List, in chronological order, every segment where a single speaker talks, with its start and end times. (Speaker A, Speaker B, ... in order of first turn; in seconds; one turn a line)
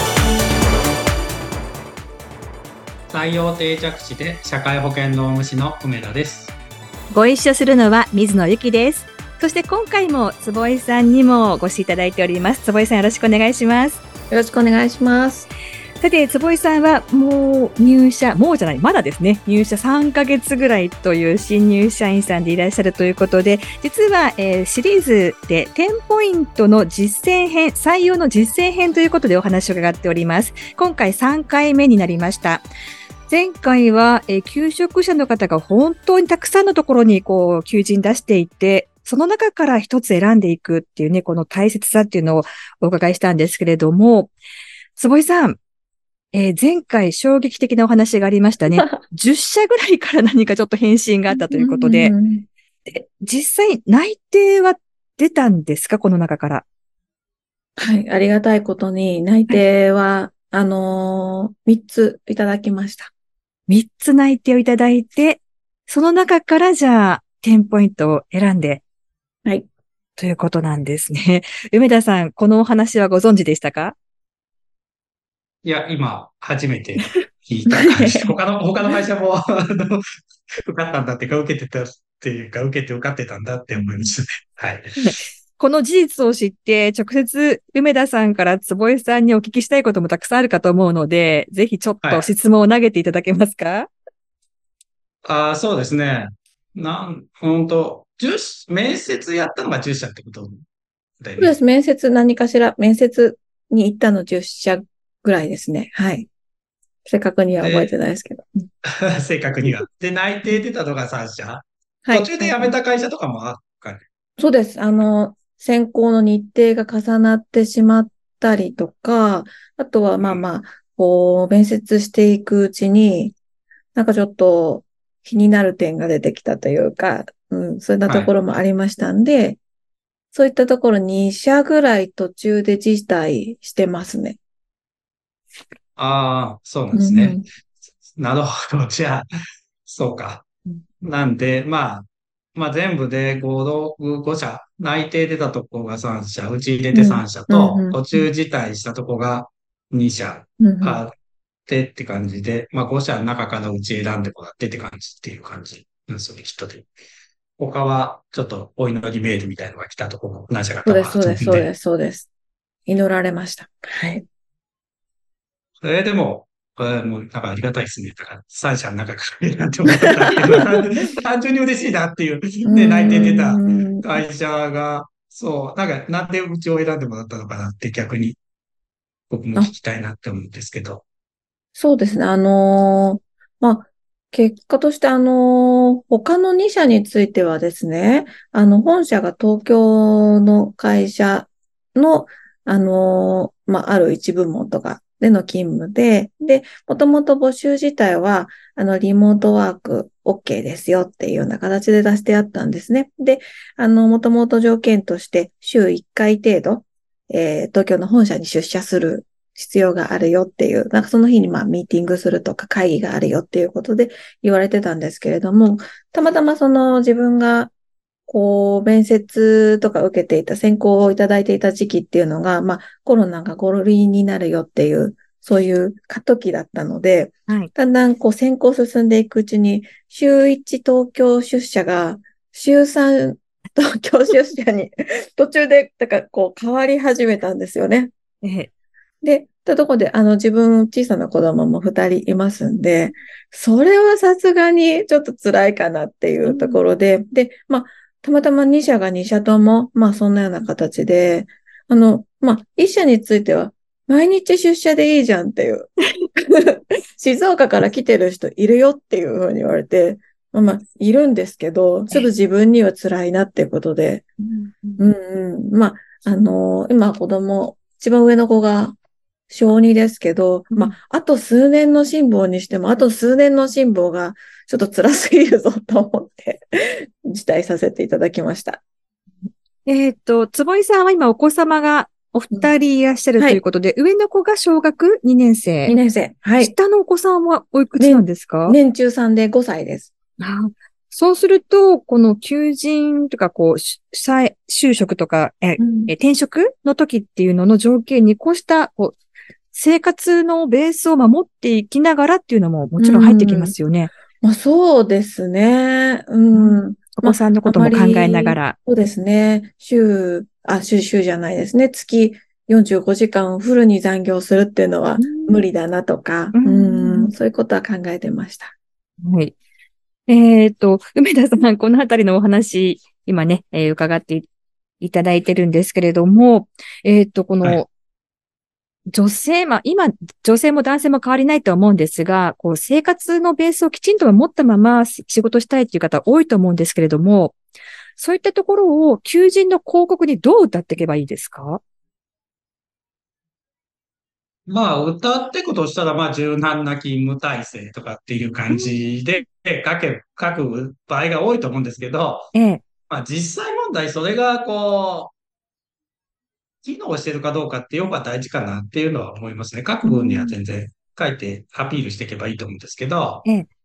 Speaker A: 3.1-6.5
Speaker B: 7.1-14.0
Speaker C: 14.3-15.5
Speaker B: 16.0-32.7
Speaker B: 33.3-44.3
Speaker B: 45.0-45.6
Speaker B: 46.3-52.1
Speaker C: 51.3-52.5
Speaker B: 52.9-56.6
Speaker C: 57.8-63.1
Speaker B: 63.7-68.8
Speaker B: 70.2-74.0
Speaker A: 75.7-80.0
Speaker C: 77.7-78.3
Speaker A: 80.6-85.0
Speaker C: 83.8-84.0
Speaker B: 85.0-93.9
Speaker A: 92.0-92.3
Speaker A: 95.2-100.6
Speaker A: 101.2-101.5
Speaker C: 101.4-106.3
Speaker C: 107.0-108.5
Speaker A: 107.5-107.9
Speaker A: 108.8-114.0
Speaker C: 112.1-112.8
Speaker C: 114.4-123.4
Speaker A: 120.2-120.5
Speaker C: 124.0-129.6
Speaker A: 128.1-128.3
Speaker C: 130.3-134.4
Speaker A: 136.0-137.4
Speaker C: 136.9-137.4
Speaker A: 138.1-139.3
Speaker A: 139.9-140.5
Speaker A: 141.0-151.1
Speaker C: 146.9-148.0
Speaker C: 150.6-151.0
Speaker A: 151.7-156.9
Speaker A: 157.6-161.7
Speaker C: 160.8-162.3
Speaker C: 162.9-164.2
Speaker A: 165.8-178.4
Speaker C: 172.7-174.1
Speaker A: 179.3-181.1
Speaker C: 181.8-217.7
Speaker C: 218.3-238.1
Speaker B: 238.4-238.7
Speaker C: 239.2-264.3
Speaker B: 246.4-246.8
Speaker B: 264.4-265.1
Speaker C: 265.0-269.0
Speaker C: 269.5-278.8
Speaker B: 279.9-286.0
Speaker C: 285.9-286.7
Speaker B: 286.6-288.8
Speaker C: 288.0-290.1
Speaker B: 290.4-299.2
Speaker C: 295.8-296.1
Speaker B: 299.7-304.1
Speaker C: 303.0-303.8
Speaker C: 304.4-318.7
Speaker B: 306.5-308.8
Speaker B: 315.2-315.7
Speaker B: 316.5-317.3
Speaker B: 319.2-319.6
Speaker B: 320.3-324.5
Speaker B: 325.0-327.9
Speaker B: 329.1-337.6
Speaker B: 338.2-341.8
Speaker A: 344.7-352.5
Speaker B: 352.5-352.8
Speaker A: 353.1-355.3
Speaker A: 356.8-363.5
Speaker B: 360.1-360.5